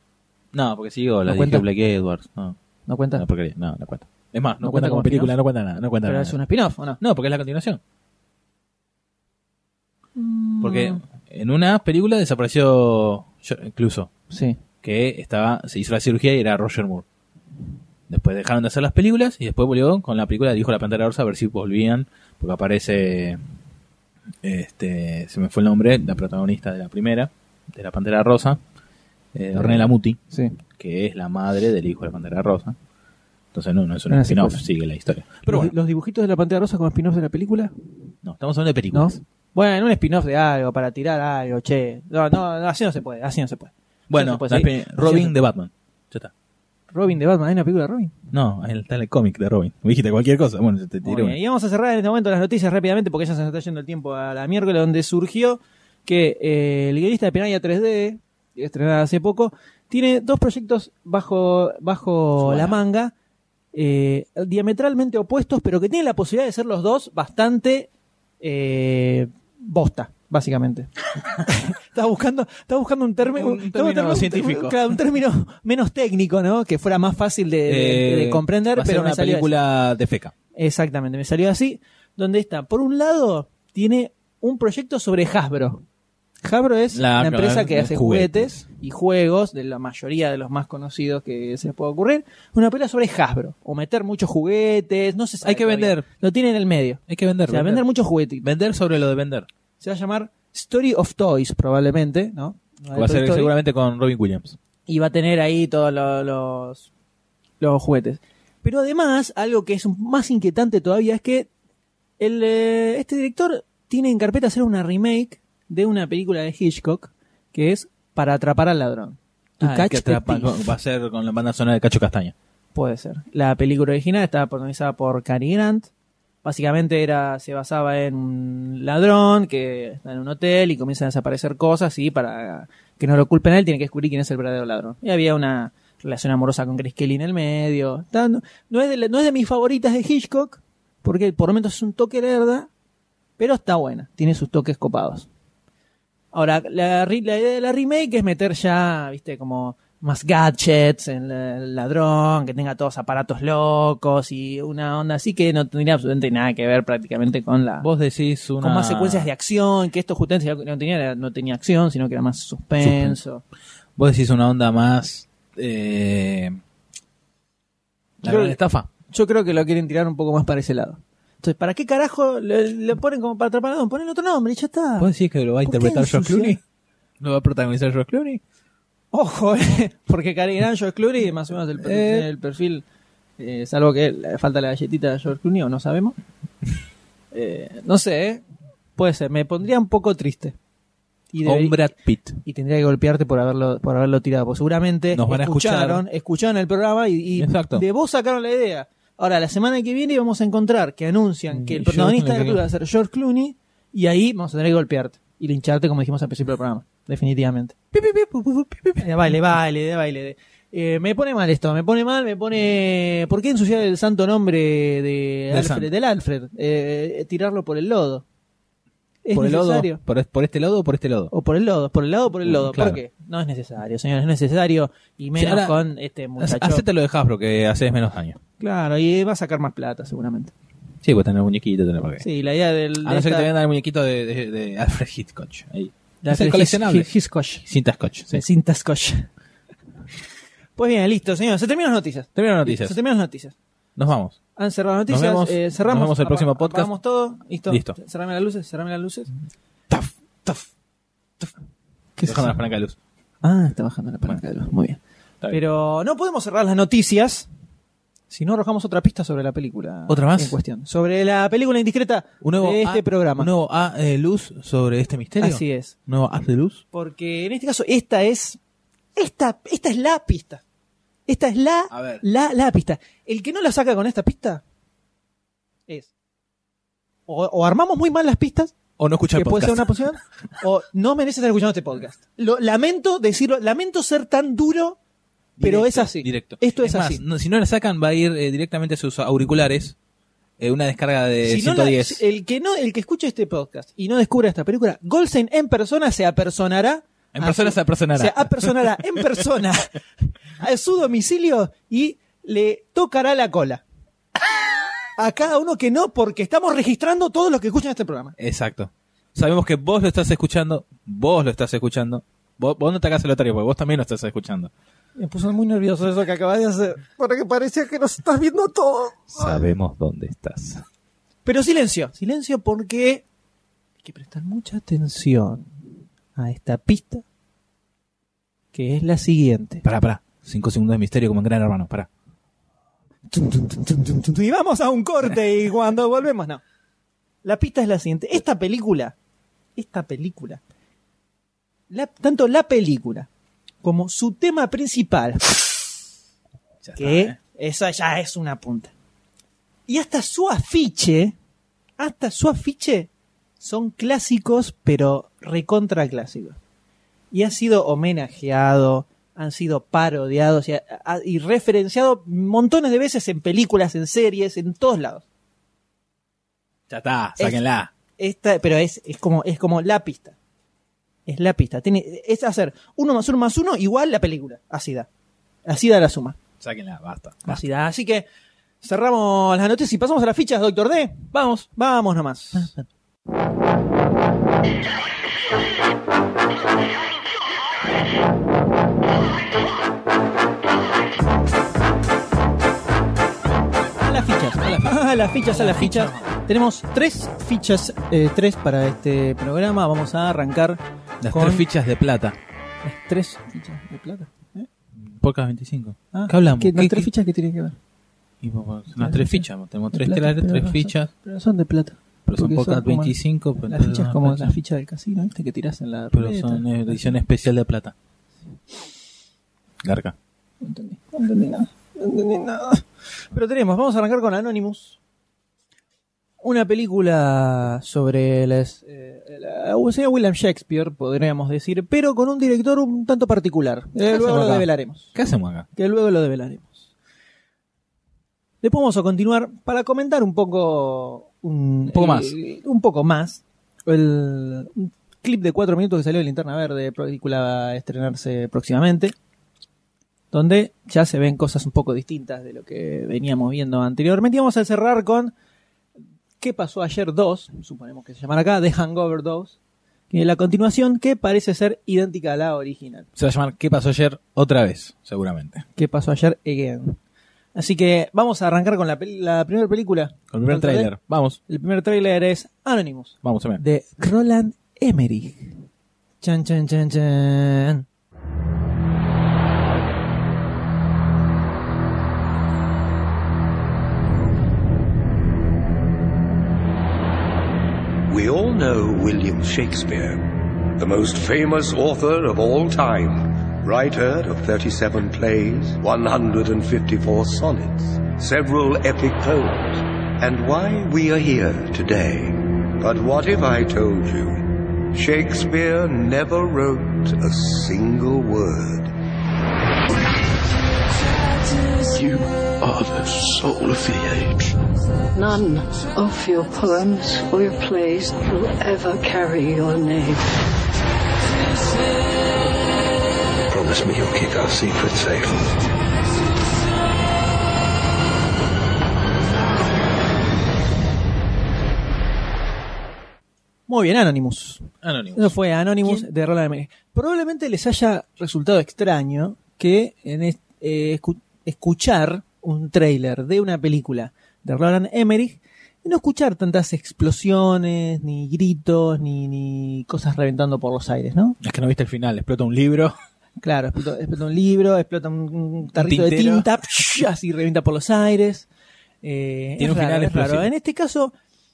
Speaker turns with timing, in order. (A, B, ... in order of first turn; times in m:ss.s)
0:00.5-0:02.5 A
0:01.3-0:01.6 B
0:02.9-0:03.2 B
0:03.1-0:06.4 A
0:04.6-0:05.3 B
0:06.0-0:07.0 B
0:07.0-0:07.8 A
0:10.2-0:11.0 B
0:10.6-0:14.1 A
0:14.3-0:14.6 B
0:14.8-0:17.0 A
0:18.1-0:23.4 A
0:24.4-0:28.6 A
0:29.3-0:30.2 A
0:29.5-0:30.6 B
0:30.7-0:32.8 A
0:33.5-0:35.7 A
0:34.1-0:34.6 B
0:35.4-0:37.7 B
0:38.2-0:39.2 A
0:38.9-0:45.4 B
0:44.1-0:46.3 A
0:46.9-0:48.1 B
0:48.3-0:51.4 A
0:51.0-1:03.1 B
1:02.4-1:02.8 A
1:03.7-1:07.9 B
1:08.4-1:19.5 B
1:13.3-1:15.0 A
1:17.6-1:20.3 A
1:20.5-1:25.8 B
1:26.4-1:38.5 B
1:26.9-1:28.6 A
1:35.4-1:36.0 A
1:37.1-1:37.8 A
1:38.4-1:39.5 A
1:39.8-1:43.5 B
1:42.9-1:44.6 A
1:44.9-1:46.9 B
1:47.6-1:51.5 B
1:52.2-2:00.7 B
1:59.6-2:02.3 A
2:02.7-2:05.9 B
2:06.4-2:22.7 B
2:23.4-2:25.3 B
2:26.3-2:37.9 B
2:37.8-2:39.3 A
2:38.6-2:43.4 B
2:42.8-2:43.2 A
2:44.0-2:46.6 A
2:48.2-2:48.9 A
2:48.2-2:55.1 B
2:55.0-2:56.6 A
2:55.6-2:56.6 B
2:57.2-2:58.4 A
2:59.1-3:02.8 B
3:01.8-3:02.3 A
3:03.4-3:06.2 B
3:07.3-3:08.4 B
3:09.0-3:10.6 B
3:11.3-3:11.9 B
3:11.4-3:12.4 A
3:12.4-3:27.8 B
3:15.1-3:16.0 A
3:17.4-3:17.8 A
3:21.5-3:22.6 A
3:27.9-3:29.3 A
3:29.0-3:38.2 B
3:35.5-3:35.9 A
3:39.2-3:40.0 B
3:39.3-3:41.3 A
3:41.3-3:46.8 B
3:42.4-3:43.0 A
3:45.4-3:45.8 A
3:46.4-3:48.4 A
3:48.6-3:50.5 B
3:51.0-3:52.2 A
3:52.2-3:53.5 B
3:53.0-3:57.1 A
3:56.2-3:57.6 B
3:57.6-3:58.4 A
3:58.3-3:59.3 B
4:00.8-4:03.5 B
4:02.3-4:03.0 A
4:04.0-4:04.4 A
4:04.6-4:09.3 B
4:05.1-4:06.9 A
4:07.7-4:08.0 A
4:09.9-4:10.7 A
4:12.2-4:12.6 B
4:12.2-4:13.0 A
4:13.4-4:15.0 B
4:15.5-4:17.5 B
4:18.3-4:23.5 B
4:20.1-4:20.6 A
4:22.4-4:26.8 A
4:25.4-4:25.9 B
4:26.9-4:28.6 B
4:29.2-4:30.6 B
4:31.3-4:34.6 B
4:31.9-4:32.2 A
4:37.3-4:38.7 B
4:39.0-4:40.0 A
4:39.3-4:45.0 B
4:45.6-4:50.0 A
4:45.6-4:47.2 B
4:50.6-4:52.2 A
4:51.4-5:00.0 B
4:57.3-4:59.4 A
5:00.6-5:03.8 B
5:05.2-5:08.4 B
5:08.4-5:14.7 A
5:15.2-5:19.6 B
5:19.3-5:20.8 A
5:21.4-5:23.2 B
5:24.0-5:25.7 B
5:26.4-5:27.2 B
5:28.7-5:29.8 B
5:29.8-5:32.1 A
5:33.3-5:36.6 B
5:37.4-5:39.1 B
5:39.8-5:40.6 B
5:41.9-5:43.3 B
5:43.8-5:45.9 B
5:46.8-5:47.4 A
5:47.0-5:48.9 B
5:49.9-5:51.3 B
5:52.0-5:56.6 B
5:57.3-6:05.2 B
6:06.9-6:07.9 A
6:07.4-6:07.6 B
6:08.2-6:10.3 B
6:11.3-6:15.1 B
6:15.6-6:16.4 B
6:16.6-6:17.6 A
6:17.4-6:18.2 B
6:18.8-6:22.8 B
6:21.3-6:21.6 A
6:34.0-6:41.6 B
6:34.6-6:36.3 A
6:41.2-6:42.4 A
6:42.8-6:44.7 B
6:45.0-6:47.1 A
6:46.1-6:47.8 B
6:48.4-6:51.1 A
6:49.0-6:57.1 B
6:52.2-6:54.6 A
6:56.1-6:57.9 A
6:59.8-7:00.1 A
7:00.6-7:05.0 B
7:06.4-7:15.1 B
7:14.1-7:15.7 A
7:15.7-7:16.8 B
7:18.6-7:29.1 B
7:21.9-7:22.4 A
7:30.3-7:35.3 B
7:36.4-7:39.6 B
7:40.1-7:43.1 B
7:43.2-7:45.6 A
7:45.8-7:47.0 B
7:47.5-7:50.9 B
7:50.3-7:51.4 A
7:51.5-7:55.6 B
7:53.2-7:53.6 A
7:56.2-7:57.8 B
8:08.1-8:28.9 C
8:31.9-8:34.6 D
8:35.1-8:40.3 E
8:43.5-8:45.5 D
8:53.7-9:11.4 B
8:54.8-8:56.1 A
9:11.4-9:13.0 A
9:13.4-9:18.5 B
9:15.7-9:16.4 A
9:19.0-9:21.1 B
9:19.6-9:20.5 A